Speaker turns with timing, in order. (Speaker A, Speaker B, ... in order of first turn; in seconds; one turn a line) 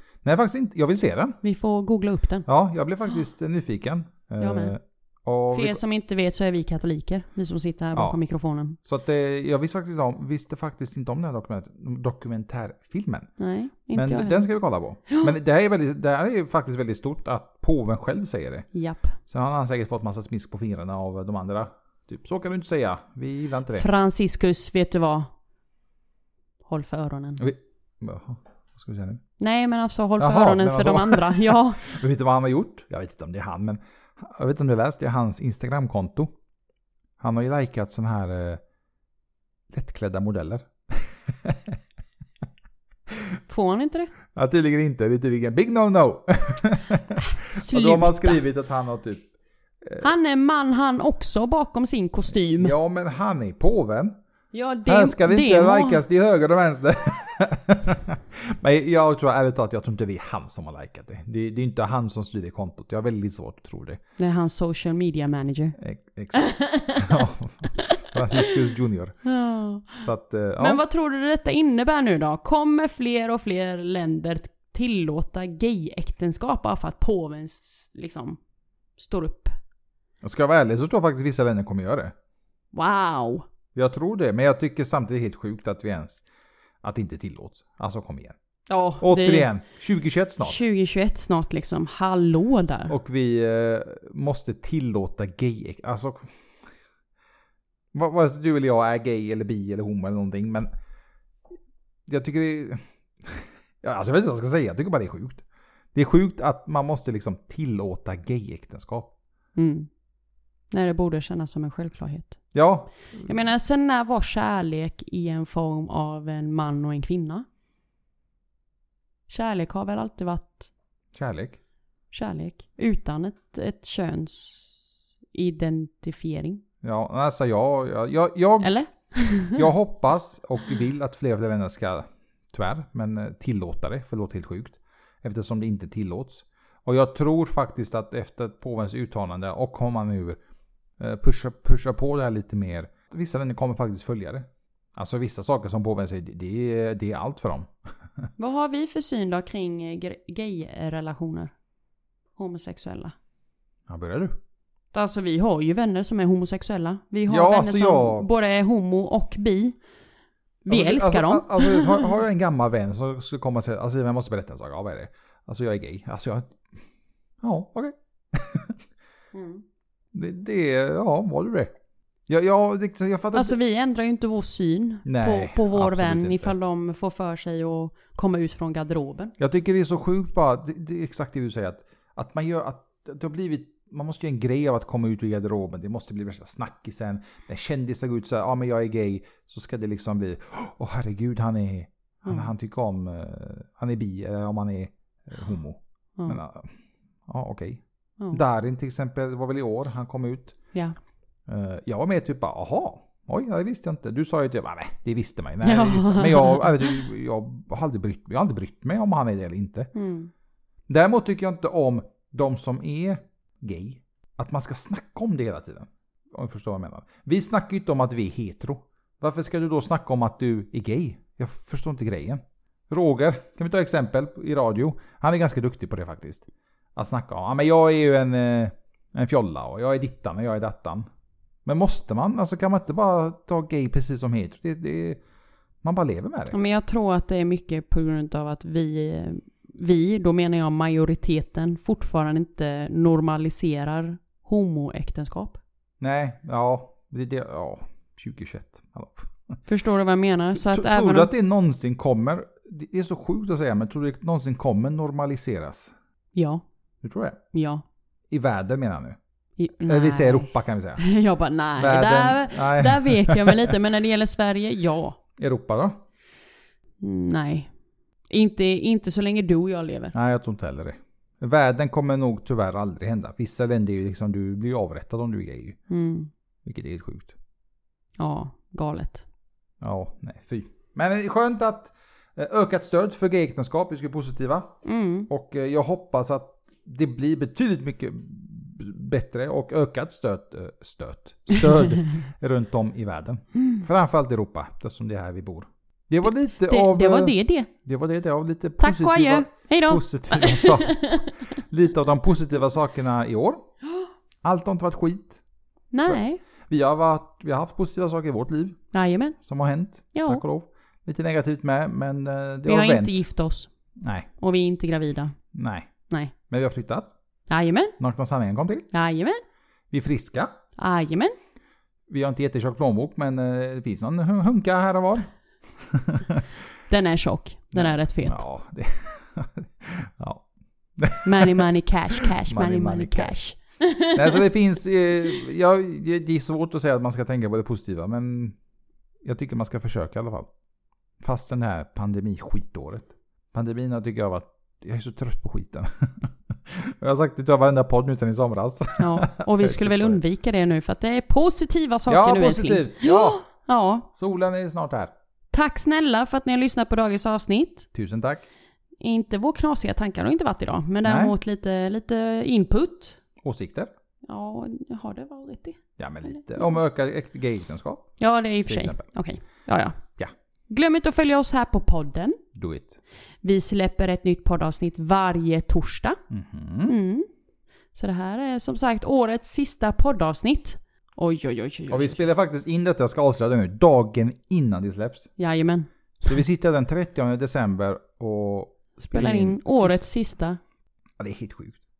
Speaker A: 0.2-1.4
Speaker B: 1.4-2.5
Speaker A: 2.5-5.8
Speaker B: 4.4-4.7
Speaker B: 5.5-8.8
Speaker A: 8.8-13.3
Speaker B: 13.4-14.4
Speaker A: 13.9-18.7
Speaker B: 18.7-19.1
Speaker A: 19.3-23.9
Speaker B: 23.7-25.3
Speaker B: 26.6-27.4
Speaker A: 27.4-29.2
Speaker B: 29.4-31.8
Speaker A: 30.2-36.3
Speaker A: 37.2-38.6
Speaker A: 39.7-41.8
Speaker B: 43.5-44.1
Speaker A: 44.3-49.3
Speaker B: 47.2-48.4
Speaker B: 50.0-52.7
Speaker A: 52.6-54.1
Speaker B: 54.5-56.0
Speaker A: 54.9-64.0
Speaker B: 64.2-65.8
Speaker A: 65.8-69.1
Speaker B: 66.3-68.6
Speaker B: 69.2-70.0
Speaker A: 70.0-70.8
Speaker B: 70.6-78.4
Speaker B: 79.0-79.5
Speaker A: 80.2-82.1
Speaker B: 82.7-83.5
Speaker A: 83.7-86.2
Speaker A: 86.8-88.3
Speaker B: 88.7-89.5
Speaker A: 89.0-90.6
Speaker B: 90.4-92.9
Speaker A: 92.9-96.3
Speaker A: 97.9-100.7
Speaker A: 102.1-105.4
Speaker A: 105.9-109.1
Speaker B: 109.5-109.9
Speaker B: 110.7-112.4
Speaker A: 112.5-113.4
Speaker B: 113.2-117.5
Speaker B: 119.3-120.7
Speaker A: 121.1-121.6
Speaker B: 122.1-126.6
Speaker A: 126.8-128.7
Speaker B: 128.6-129.7
Speaker A: 129.5-140.4
Speaker A: 141.0-147.7
Speaker B: 148.4-151.5
Speaker B: 152.4-153.1
Speaker A: 153.9-154.4
Speaker B: 154.9-159.8
Speaker A: 157.3-158.3
Speaker B: 160.6-162.1
Speaker A: 160.7-166.6
Speaker A: 167.4-168.8
Speaker B: 169.3-169.6
Speaker A: 170.1-171.7
Speaker A: 172.3-173.5
Speaker B: 173.3-179.3
Speaker A: 175.1-176.5
Speaker A: 179.4-196.7
Speaker B: 192.2-192.5
Speaker A: 197.3-200.6
Speaker A: 201.5-209.9
Speaker B: 205.6-207.0
Speaker B: 209.9-210.3
Speaker A: 210.9-231.1
Speaker A: 231.6-235.2
Speaker A: 235.8-236.6
Speaker B: 236.5-245.6
Speaker A: 246.0-249.6
Speaker B: 249.7-251.3
Speaker A: 250.6-255.9
Speaker B: 256.3-256.6
Speaker A: 257.0-257.4
Speaker B: 257.5-257.8
Speaker A: 258.3-259.2
Speaker B: 259.6-265.2
Speaker A: 259.9-261.0
Speaker A: 261.8-263.8
Speaker A: 265.4-266.0
Speaker B: 267.0-267.7
Speaker B: 268.3-270.1
Speaker A: 270.1-275.8
Speaker B: 275.9-276.3
Speaker A: 276.6-277.3
Speaker B: 278.2-279.2
Speaker A: 279.8-284.7
Speaker B: 284.8-285.3
Speaker A: 285.3-303.7
Speaker B: 296.2-297.7
Speaker B: 298.8-301.4
Speaker A: 304.4-305.4
Speaker B: 305.9-306.4
Speaker A: 306.1-308.8
Speaker B: 308.9-309.4
Speaker A: 309.4-313.2
Speaker B: 310.1-310.4
Speaker B: 312.6-313.7
Speaker A: 314.0-314.3
Speaker B: 314.4-315.3
Speaker A: 315.5-315.9
Speaker A: 316.5-317.1
Speaker B: 317.5-317.9
Speaker A: 318.0-318.9
Speaker B: 318.9-319.4
Speaker A: 319.9-320.6
Speaker B: 320.8-321.3
Speaker A: 322.1-325.3
Speaker A: 325.9-326.4
Speaker B: 326.9-328.4
Speaker A: 327.7-330.4
Speaker A: 331.0-333.4
Speaker B: 331.2-334.4
Speaker A: 334.1-338.6
Speaker A: 339.2-340.5
Speaker A: 341.2-350.2
Speaker B: 349.0-354.1
Speaker A: 352.1-353.4
Speaker A: 354.1-355.1
Speaker B: 355.5-357.9
Speaker A: 357.9-358.4
Speaker B: 359.0-363.2
Speaker A: 361.0-361.3
Speaker A: 363.4-363.9
Speaker B: 364.3-366.3
Speaker A: 366.0-368.1
Speaker B: 368.2-370.0
Speaker A: 368.7-369.0
Speaker B: 370.7-372.4
Speaker A: 372.5-373.0
Speaker B: 373.4-376.2
Speaker A: 376.3-377.0
Speaker B: 376.9-377.3
Speaker B: 377.9-382.2
Speaker A: 381.9-385.3
Speaker B: 385.4-385.9
Speaker A: 386.2-390.1
Speaker B: 389.1-390.6
Speaker A: 391.2-391.8